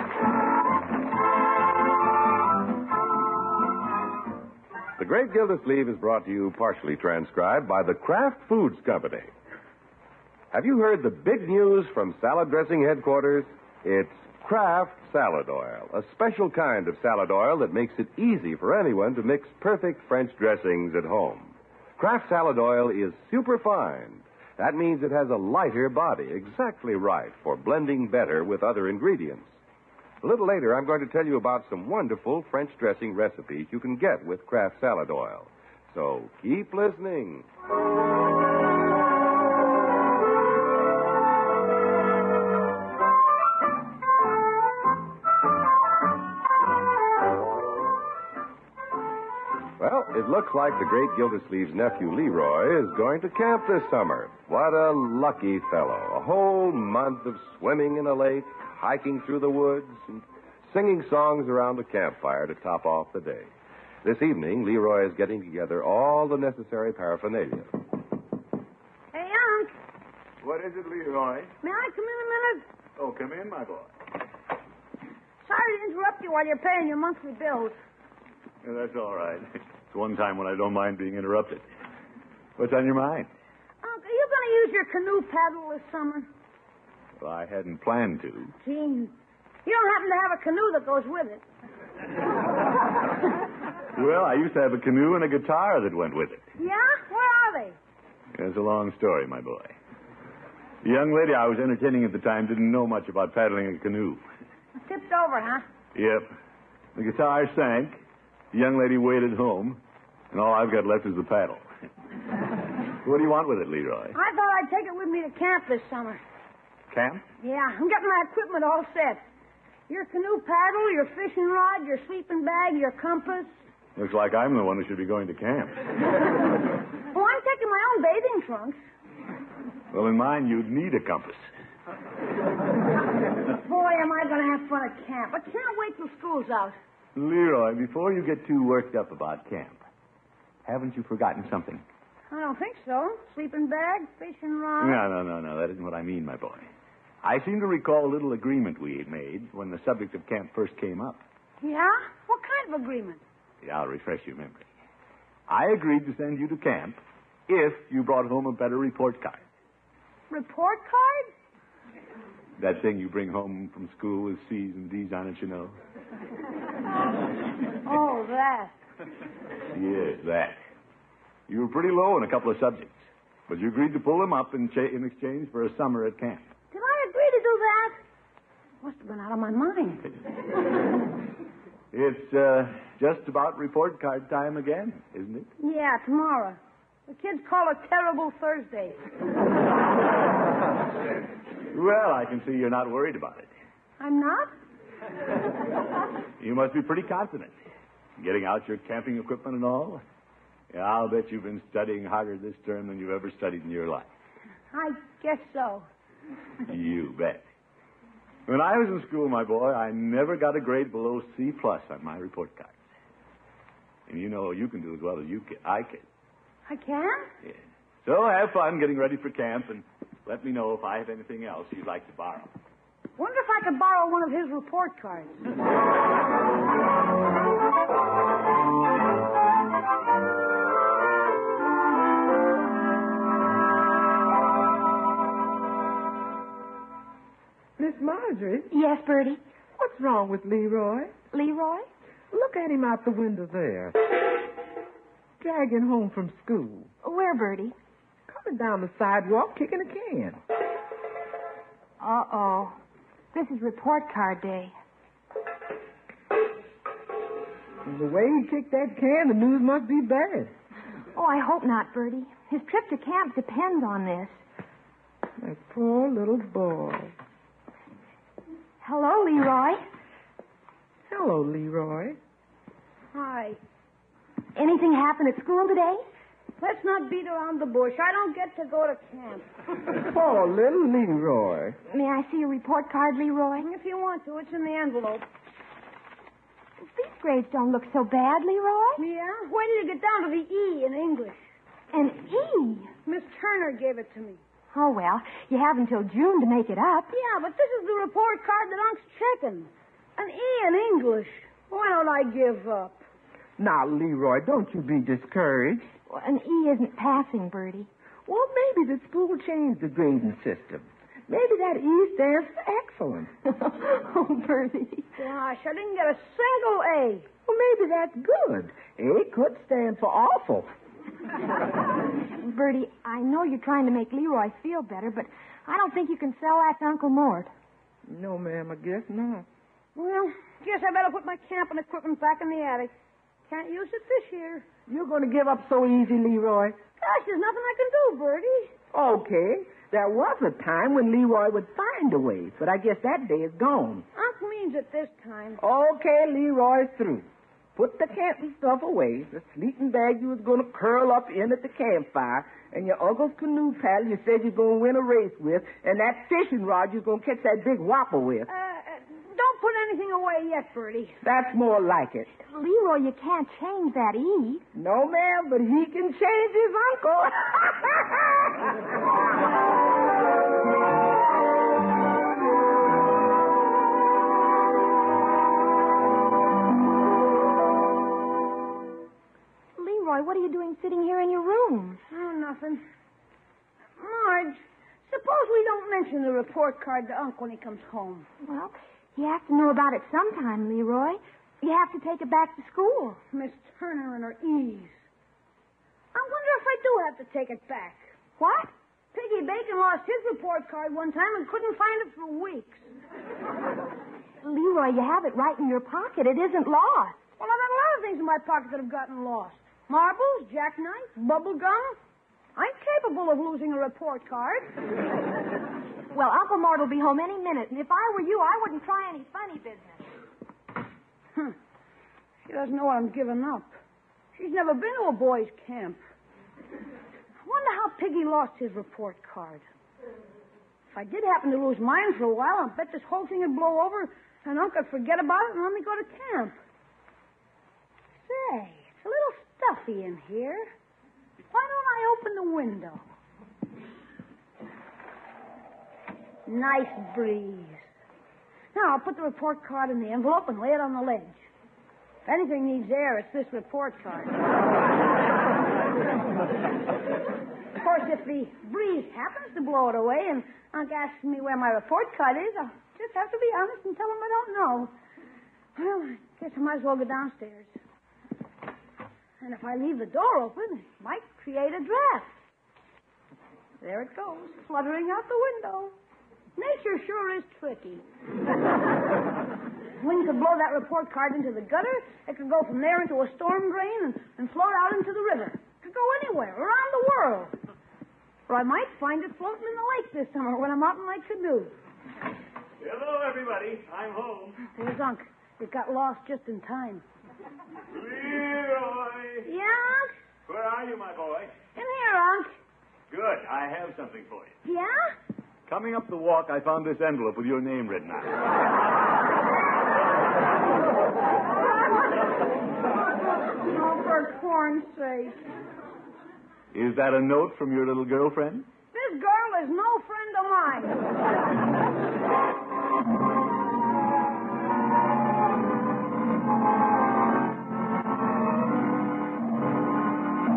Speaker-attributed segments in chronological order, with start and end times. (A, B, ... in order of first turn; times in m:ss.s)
0:05.0-0:09.3 A
0:10.5-0:29.5 A
0:30.2-0:37.5 A
0:49.8-1:03.5 A
1:04.0-1:07.7 A
1:09.1-1:09.7 B
1:10.4-1:11.5 C
1:11.6-1:12.6 B
1:13.0-1:13.9 C
1:15.4-1:17.8 B
1:18.6-1:21.6 C
1:22.6-1:23.3 C
1:23.8-1:26.3 B
1:27.2-1:28.5 C
1:28.6-1:29.1 B
1:29.7-1:31.4 B
1:34.0-1:36.4 C
1:36.6-1:37.8 B
1:38.4-1:39.8 C
1:40.8-1:44.2 C
1:44.9-1:45.6 B
1:46.0-1:46.3 C
1:47.0-1:48.0 C
1:48.5-1:49.8 C
1:50.3-1:51.6 C
1:53.0-1:54.2 C
1:54.1-1:56.2 B
1:56.9-1:57.2 C
1:57.4-1:59.2 B
1:59.9-2:03.5 B
2:04.0-2:05.8 C
2:07.1-2:08.8 B
2:09.9-2:11.4 C
2:13.6-2:16.8 B
2:17.2-2:19.8 C
2:20.7-2:21.8 C
2:22.3-2:25.0 B
2:24.8-2:26.7 C
2:27.2-2:31.2 C
2:31.6-2:33.2 B
2:33.6-2:34.7 C
2:35.5-2:39.4 C
2:40.3-2:41.3 B
2:42.6-2:45.8 C
2:47.8-2:48.8 B
2:49.7-2:50.6 C
2:51.5-2:56.5 C
2:56.7-2:58.0 B
2:58.8-3:00.1 B
3:01.9-3:05.5 C
3:05.6-3:09.0 B
3:11.7-3:13.5 C
3:14.0-3:14.5 B
3:16.4-3:17.6 C
3:18.2-3:20.0 C
3:20.7-3:24.1 C
3:24.7-3:25.9 B
3:26.7-3:27.5 C
3:28.5-3:32.8 C
3:34.1-3:36.0 C
3:36.7-3:37.3 B
3:37.4-3:42.5 C
3:43.2-3:45.4 B
3:57.8-3:58.7 D
3:58.7-3:59.4 E
3:59.8-4:01.1 D
4:01.3-4:01.9 E
4:02.3-4:04.0 D
4:05.4-4:06.9 D
4:07.0-4:07.8 E
4:08.3-4:10.4 D
4:12.0-4:12.8 E
4:13.3-4:14.7 E
4:17.8-4:20.5 D
4:21.2-4:24.4 E
4:25.4-4:27.2 D
4:28.8-4:29.8 E
4:31.1-4:32.2 D
4:33.1-4:33.6 B
4:34.6-4:36.0 E
4:36.6-4:39.5 B
4:39.9-4:41.8 D
4:41.9-4:43.7 E
4:43.6-4:45.2 B
4:46.8-4:49.0 E
4:49.0-4:51.4 B
4:51.9-4:52.9 E
4:53.0-4:54.4 B
4:54.7-4:57.1 E
4:57.1-5:03.0 B
5:03.6-5:05.9 D
5:06.1-5:07.9 E
5:08.3-5:13.3 D
5:13.5-5:15.1 E
5:15.2-5:17.3 B
5:17.5-5:20.7 D
5:22.4-5:27.5 E
5:28.1-5:29.5 D
5:30.0-5:32.9 B
5:33.5-5:34.6 B
5:34.9-5:36.8 D
5:37.0-5:38.7 B
5:38.9-5:44.0 D
5:44.2-5:45.6 B
5:45.6-5:58.5 D
5:58.5-6:01.2 B
6:01.2-6:02.3 D
6:02.5-6:04.7 E
6:04.7-6:08.9 D
6:19.8-6:22.0 E
6:22.1-6:22.8 B
6:24.0-6:28.3 B
6:28.4-6:33.2 E
6:33.3-6:34.9 B
6:36.1-6:38.1 B
6:38.4-6:38.7 E
6:39.1-6:42.9 B
6:44.4-6:47.2 E
6:47.4-6:52.0 B
6:52.6-6:54.7 B
6:56.1-7:00.1 E
7:02.5-7:03.7 B
7:04.4-7:06.0 B
7:07.4-7:09.6 B
7:10.9-7:16.6 B
7:18.2-7:20.7 B
7:21.5-7:23.0 B
7:26.5-7:27.8 B
7:28.7-7:31.4 B
7:32.3-7:34.4 B
7:37.8-7:44.9 B
7:45.8-7:47.7 B
7:49.4-7:52.3 B
7:53.8-7:56.0 B
7:56.6-7:58.0 B
8:00.0-8:07.5 B
8:08.5-8:11.7 B
8:12.8-8:14.7 C
8:14.8-8:17.0 B
8:17.9-8:19.5 C
8:19.4-8:20.1 B
8:20.5-8:21.6 C
8:21.8-8:22.5 B
8:23.1-8:24.6 C
8:24.6-8:25.2 B
8:25.7-8:28.5 C
8:33.5-8:35.4 B
8:36.7-8:38.7 C
8:38.9-8:41.0 B